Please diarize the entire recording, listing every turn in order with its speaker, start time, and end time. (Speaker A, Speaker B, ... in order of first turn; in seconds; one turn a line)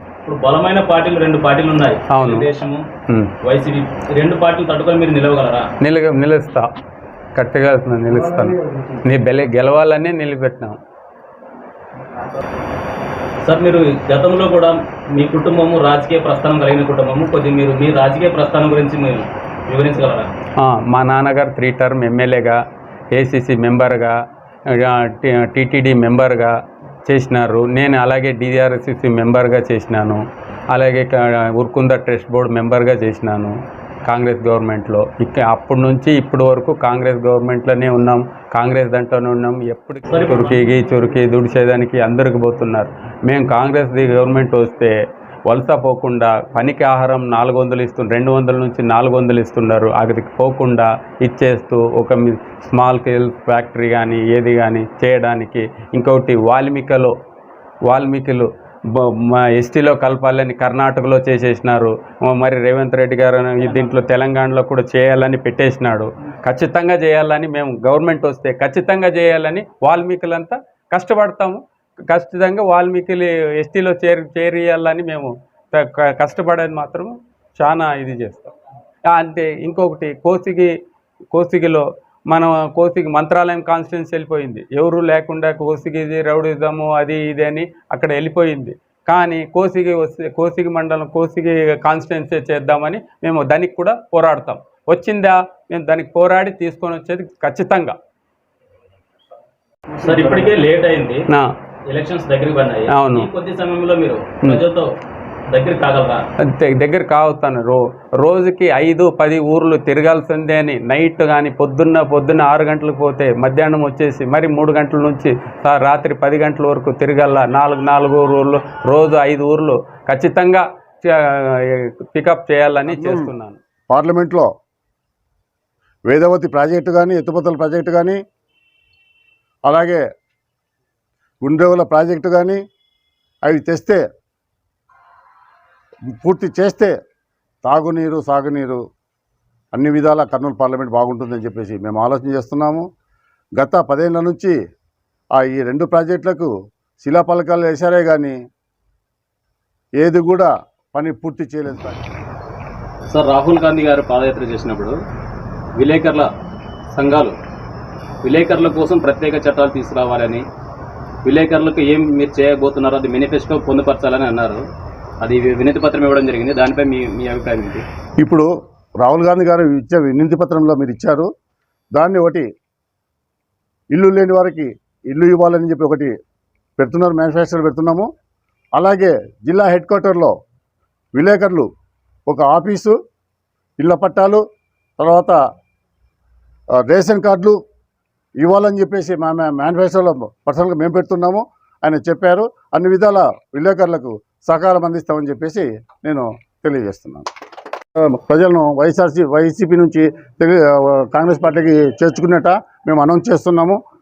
Speaker A: 0.2-2.8
Speaker B: 2.1-2.5
Speaker B: 3.1-3.3
Speaker A: 3.5-5.7
Speaker B: 5.8-6.7
Speaker B: 7.3-10.8
Speaker A: 13.4-20.3
Speaker B: 20.6-22.6
Speaker B: 23.1-24.1
Speaker B: 24.7-26.5
Speaker B: 27.1-30.2
Speaker B: 30.7-33.5
Speaker B: 34.1-44.9
Speaker A: 40.1-40.7
Speaker B: 45.5-57.1
Speaker B: 57.9-78.5
Speaker A: 63.6-63.9
Speaker B: 79.1-80.7
Speaker B: 81.3-98.0
Speaker A: 100.0-101.2
Speaker A: 101.9-104.9
Speaker B: 102.9-103.3
Speaker A: 105.5-106.2
Speaker B: 106.4-123.6
Speaker C: 122.9-123.3
Speaker C: 123.9-124.5
Speaker C: 126.1-128.2
Speaker C: 129.7-130.0
Speaker C: 131.4-132.6
Speaker C: 133.4-134.0
Speaker C: 136.1-136.9
Speaker C: 137.6-138.8
Speaker C: 139.7-142.8
Speaker C: 143.6-144.5
Speaker C: 145.4-146.5
Speaker C: 147.0-148.3
Speaker C: 150.0-152.0
Speaker A: 153.1-155.0
Speaker A: 155.8-156.3
Speaker A: 156.9-157.3
Speaker A: 158.2-160.4
Speaker A: 161.2-164.6
Speaker A: 165.2-167.8
Speaker C: 168.2-168.5
Speaker C: 169.0-171.3
Speaker C: 171.9-172.5
Speaker C: 173.9-176.1
Speaker C: 176.8-178.1
Speaker C: 178.8-180.3
Speaker C: 181.2-181.7
Speaker C: 182.3-182.9
Speaker C: 183.8-184.4
Speaker C: 185.0-185.4
Speaker C: 186.8-187.6
Speaker C: 188.4-197.3
Speaker C: 198.0-203.8